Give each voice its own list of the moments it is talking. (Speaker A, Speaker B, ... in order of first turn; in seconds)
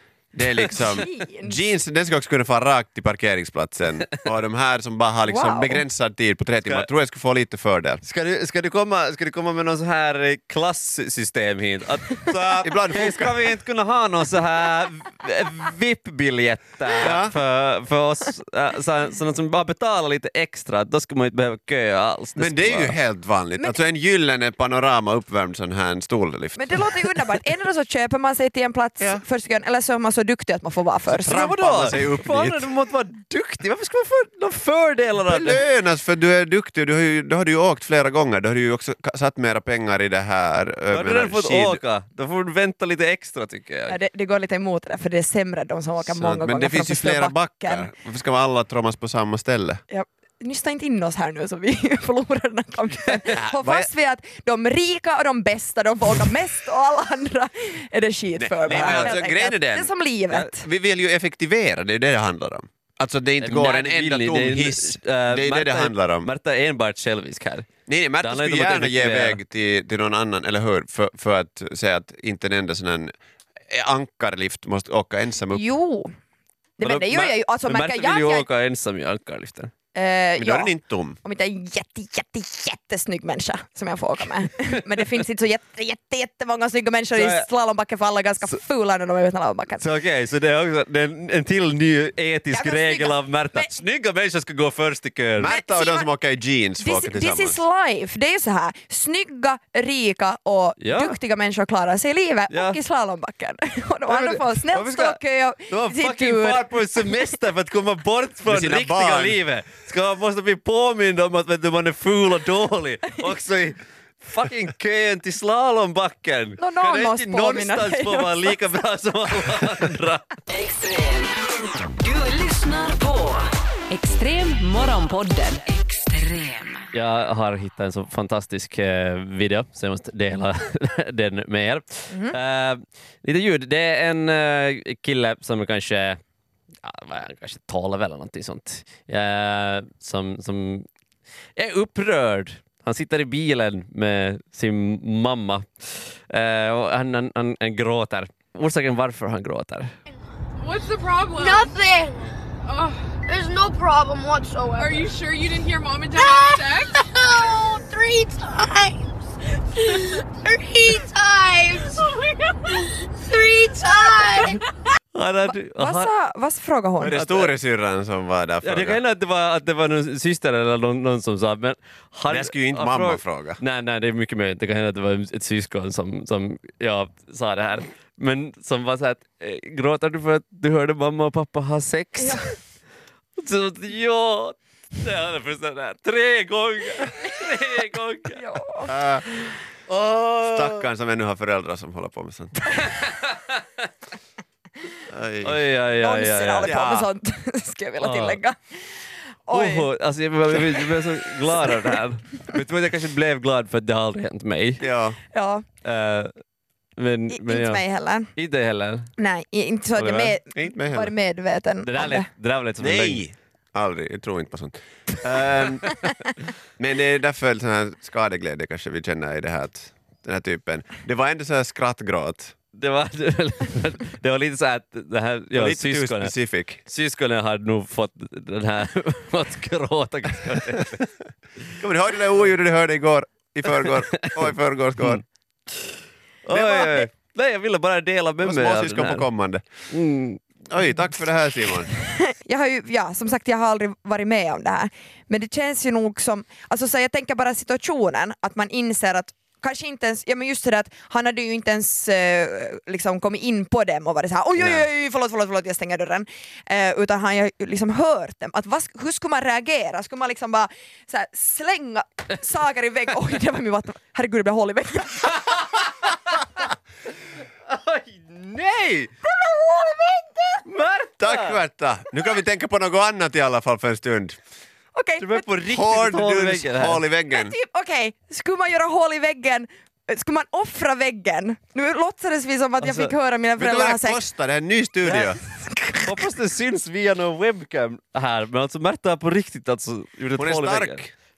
Speaker A: 0.3-8.0, 12.4-13.3, 17.0-17.3, 22.4-27.2, 31.1-32.7, 35.2-41.8, 46.0-49.8, 53.3-53.9, 58.4-66.3, 67.9-73.1, 73.7-75.6, 80.4-81.2, 95.4-97.6, 108.5-109.4, 167.0-169.0, 172.3-173.6, 188.8-189.2, 190.5-192.8, 195.1-195.6, 196.6-197.1, 204.8-205.2, 210.5-211.1, 212.8-216.0, 216.8-222.5, 225.5-226.8, 231.8-235.2, 236.5-237.1, 238.4-239.6, 240.7-241.9, 271.2-274.4, 275.7-277.5, 283.6-285.4, 290.4-291.1
Speaker B: 0.7-1.6, 5.3-5.8, 26.6-31.3, 43.9-47.9, 49.9-60.6, 75.5-76.1, 76.8-78.5, 79.9-89.8, 92.5-93.7, 95.5-96.1, 96.8-107.1, 116.6-118.6, 132.1-132.3, 165.4-167.5, 188.3-188.9, 195.9-198.9, 199.5-199.9, 205.3-205.6, 207.3-208.3, 209.2-212.3, 242.0-265.6, 269.3-270.6, 274.9-275.4, 277.3-284.2, 285.0-286.2
Speaker C: 8.0-22.9, 31.2-35.6, 40.9-44.0, 58.7-59.1, 63.4-67.7, 68.2-69.4, 76.8-79.7, 87.1-87.5, 89.8-95.5, 100.8-101.2, 102.5-102.8, 104.1-120.3, 126.9-136.2, 136.8-140.8, 141.6-149.9, 165.1-166.1, 168.6-182.5, 183.4-188.4, 189.9-190.9, 192.7-193.9, 195.4-196.8, 198.0-198.4, 199.5-204.8, 205.8-206.3, 207.0-207.8, 208.3-209.1, 210.0-210.3, 211.8-213.2, 222.7-226.3, 226.8-231.1, 233.9-234.4, 236.4-239.2, 239.9-240.4, 267.7-269.1, 270.6-271.6, 275.2-277.0, 282.8-283.1, 286.0-291.0
Speaker D: 120.5-126.9
Speaker E: 150.6-151.7, 152.7-153.1, 154.8-156.9
Speaker F: 151.2-152.3, 153.2-155.2, 156.0-159.2, 159.7-164.6